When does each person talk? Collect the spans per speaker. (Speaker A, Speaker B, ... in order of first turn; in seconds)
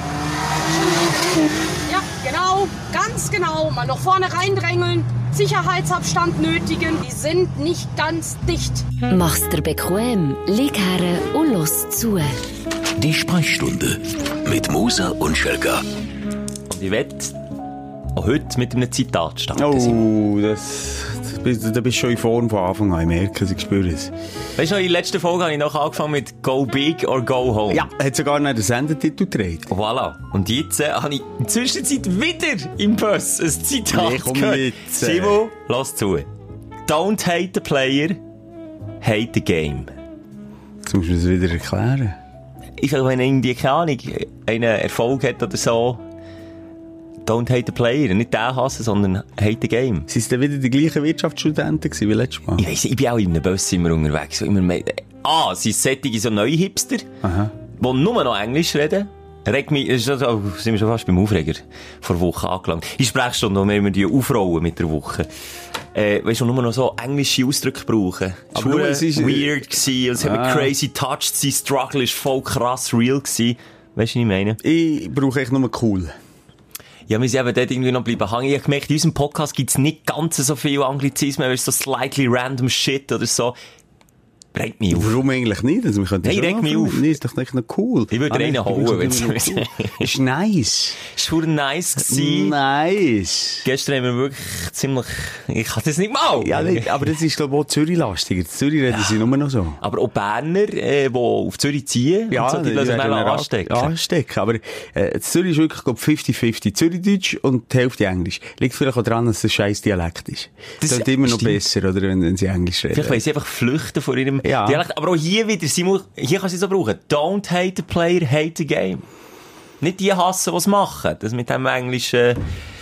Speaker A: 0.7-1.2, 1.9-9.0
Speaker B: 9.0-12.4
Speaker C: 13.0-15.8
Speaker D: 16.7-17.4, 18.1-20.0, 24.6-27.9, 29.7-36.3, 36.9-38.2, 39.0-39.9, 42.8-46.0, 47.2-50.1, 52.6-57.1, 57.8-65.3, 65.9-74.6, 77.1-83.5, 84.5-85.2, 86.2-87.1, 88.1-90.1, 91.0-92.5, 93.6-97.0, 99.8-103.9, 110.8-111.6, 112.9-119.0, 119.8-122.4
Speaker E: 19.5-24.1, 27.7-29.7, 33.9-35.5, 40.9-42.2, 50.1-52.6, 57.2-57.5, 68.5-69.6, 70.2-70.7, 74.6-76.1, 84.9-91.0, 92.0-93.7, 96.4-99.8, 102.3-113.2, 114.4-114.8